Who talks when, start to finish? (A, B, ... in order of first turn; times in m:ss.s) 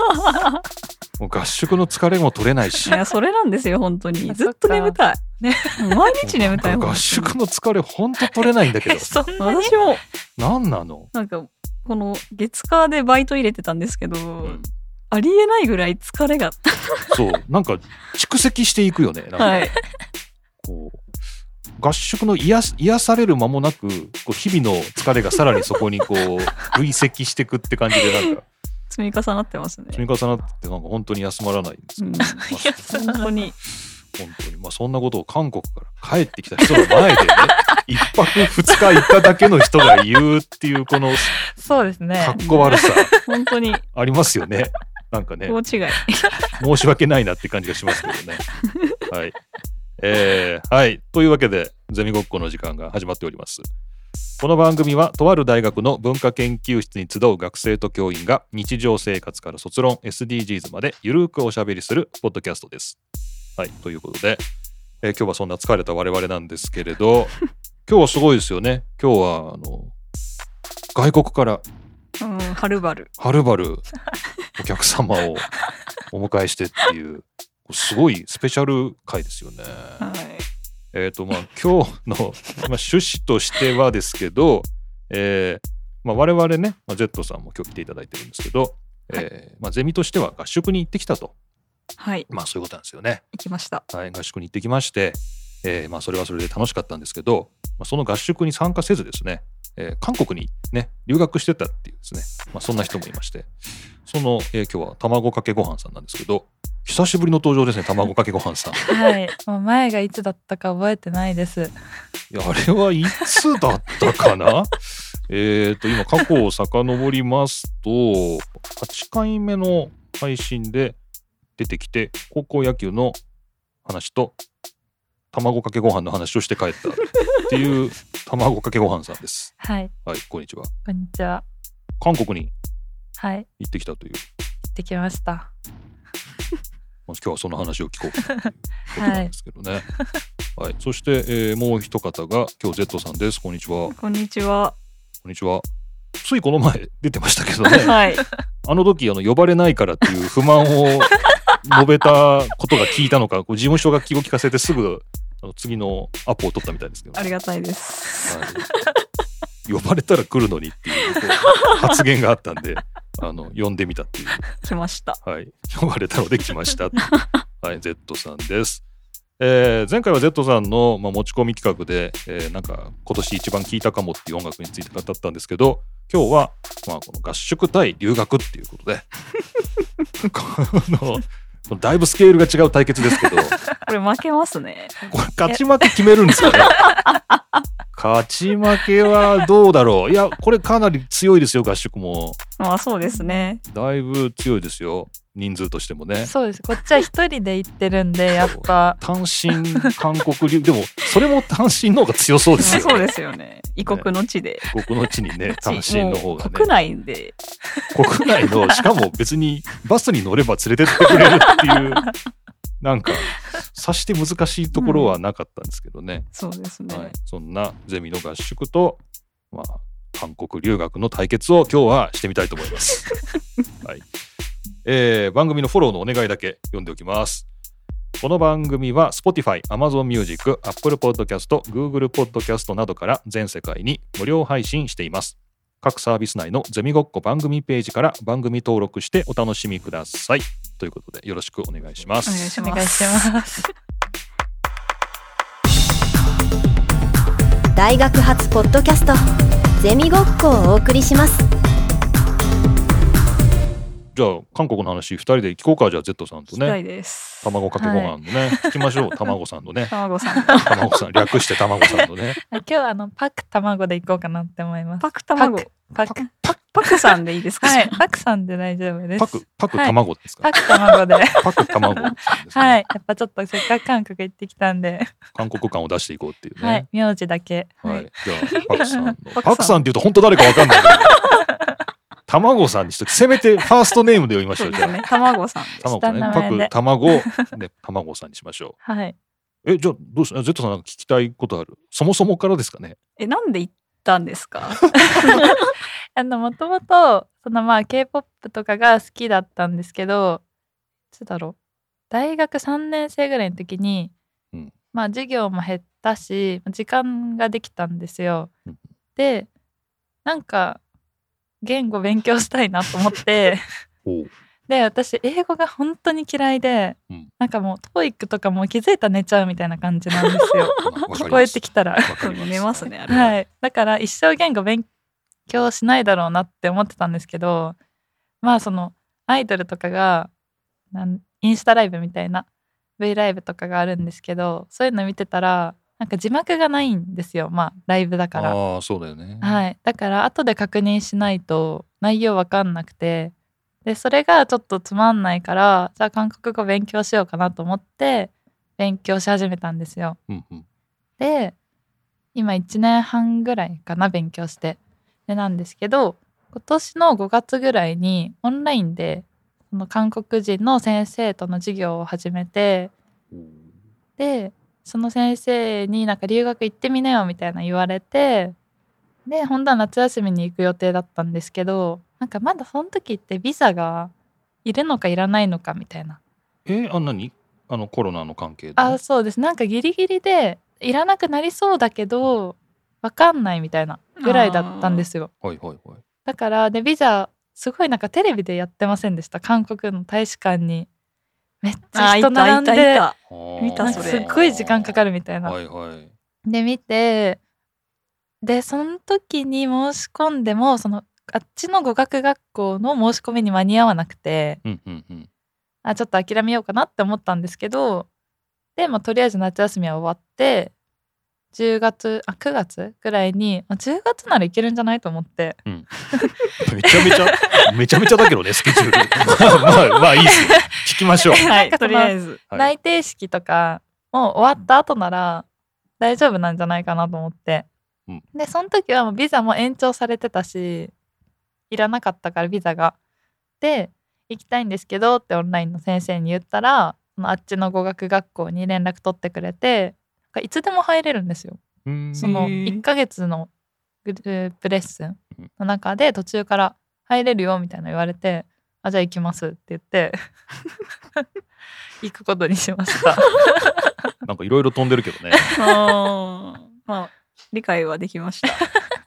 0:01.2-0:03.0 A
0:02.9-0:05.2 B
0:04.3-0:06.0 C
0:05.8-0:07.3 B
0:06.2-0:09.1 A
0:08.9-0:09.7 C
0:09.4-0:10.0 B
0:10.4-0:11.1 A
0:11.1-0:14.6 B
0:14.4-0:14.7 A
0:15.1-0:17.2 B
0:17.1-0:19.7 A
0:19.4-0:19.8 B
0:20.6-0:21.0 A
0:21.8-0:28.4 A
0:28.9-0:30.0 B
0:29.9-0:32.9 A
0:32.0-0:33.5 B
0:32.9-0:33.2 C
0:34.1-0:41.4 A
0:41.4-0:42.4 C
0:42.2-0:43.1 A
0:42.4-0:43.8 B
0:43.9-0:45.6 A
0:45.5-0:46.4 B
0:46.6-0:48.4 A
0:48.6-0:49.0 B
0:49.1-0:49.4 A
0:50.0-0:53.7 A
0:54.4-1:03.0 A
1:03.6-1:04.4 A
1:05.0-1:09.9 A
1:10.9-1:11.6 A
1:12.2-1:13.1 B
1:13.2-1:13.9 A
1:14.6-1:15.5 A
1:16.1-1:20.0 A
1:20.0-1:20.5 B
1:20.9-1:31.3 A
1:32.0-1:32.3 B
1:32.3-1:33.2 A
1:33.3-1:33.8 B
1:33.9-1:43.5 A
1:44.0-1:48.8 A
1:48.8-1:51.7 C
1:52.3-2:01.0 A
2:01.6-2:03.2 A
2:03.8-2:04.3 A
2:05.3-2:09.5 A
2:09.6-2:09.9 C
2:10.0-2:10.7 A
2:10.8-2:11.4 C
2:12.0-2:12.5 A
2:13.2-2:13.5 C
2:13.6-2:14.2 A
2:14.7-2:15.5 C
2:17.1-2:19.8 A
2:18.9-2:19.3 C
2:20.6-2:23.9 A
2:23.9-2:24.8 B
2:25.2-2:25.6 A
2:26.2-2:28.0 A
2:27.7-2:28.2 B
2:28.6-2:37.3 A
2:37.2-2:38.5 B
2:38.3-2:38.7 A
2:39.6-2:44.5 A
2:41.5-2:41.8 B
2:44.5-2:45.2 B
2:45.2-2:47.1 A
2:47.6-2:48.8 A
2:49.4-2:59.0 A
3:00.2-3:03.6 A
3:03.8-3:04.9 B
3:05.1-3:06.9 A
3:05.5-3:05.9 C
3:06.9-3:07.2 B
3:07.9-3:12.4 A
3:12.6-3:13.6 B
3:13.0-3:13.4 C
3:13.6-3:16.3 A
3:16.2-3:19.0 C
3:18.4-3:23.1 A
3:22.6-3:24.7 B
3:24.6-3:26.7 A
3:25.5-3:27.4 B
3:27.9-3:32.1 A
3:32.8-3:36.3 A
3:34.8-3:35.1 B
3:36.3-3:37.1 B
3:36.9-3:39.0 A
3:39.5-3:43.1 A
3:43.8-3:44.1 A
3:44.8-3:47.4 A
3:48.2-4:02.4 A
4:02.2-4:03.3 B
4:02.6-4:03.7 C
4:07.7-4:09.2 D
4:09.8-4:11.5 D
4:14.1-4:16.8 A
4:16.5-4:17.5 B
4:17.4-4:19.9 A
4:17.8-4:18.7 C
4:19.9-4:20.7 B
4:20.6-4:22.4 A
4:22.5-4:26.3 C
4:25.0-4:25.7 B
4:26.0-4:26.6 A
4:26.7-4:28.0 B
4:26.8-4:35.1 C
4:29.2-4:30.5 A
4:31.4-4:32.8 A
4:35.3-4:36.8 A
4:36.6-4:38.1 C
4:37.8-4:41.2 A
4:39.3-4:39.8 B
4:40.7-4:41.4 B
4:42.3-4:45.0 A
4:44.6-4:46.3 B
4:45.8-4:48.8 A
4:45.9-4:47.5 C
4:48.8-4:49.1 C
4:49.6-4:53.0 A
4:53.2-4:55.6 B
4:56.1-5:00.4 C
5:01.1-5:01.6 C
5:02.1-5:04.1 C
5:04.9-5:08.5 C
5:09.2-5:09.5 C
5:10.2-5:10.8 C
5:11.6-5:13.6 C
5:14.0-5:14.3 A
5:14.7-5:22.2 C
5:20.8-5:23.4 A
5:22.2-5:23.3 B
5:23.1-5:24.9 C
5:25.5-5:27.8 C
5:28.4-5:30.3 C
5:30.9-5:32.4 C
5:33.0-5:38.6 C
5:38.3-5:39.6 A
5:39.4-5:43.3 C
5:43.8-5:50.2 C
5:50.3-5:50.6 A
5:51.2-5:51.5 C
5:52.3-6:02.9 C
6:03.3-6:03.7 A
6:04.2-6:08.6 C
6:09.2-6:14.1 C
6:14.6-6:16.2 C
6:16.6-6:19.0 A
6:18.8-6:25.3 C
6:24.2-6:25.0 B
6:25.4-6:26.0 A
6:26.2-6:30.9 C
6:31.6-6:33.0 C
6:31.9-6:34.3 B
6:33.3-6:36.1 A
6:33.8-6:35.6 C
6:36.4-6:37.4 C
6:38.4-6:44.6 C
6:44.6-6:45.3 A
6:45.8-6:48.0 C
6:48.8-6:50.7 C
6:51.5-6:55.6 C
6:56.6-7:01.4 A
6:57.0-6:57.6 C
7:00.3-7:00.7 C
7:01.3-7:05.4 C
7:01.4-7:02.4 B
7:06.0-7:07.7 C
7:08.3-7:10.9 C
7:11.7-7:13.0 C
7:13.6-7:21.6 C
7:21.8-7:22.5 A
7:22.1-7:23.5 C
7:22.2-7:22.8 B
7:24.0-7:30.2 C
7:32.0-7:33.4 C
7:34.2-7:35.4 A
7:35.6-7:38.6 B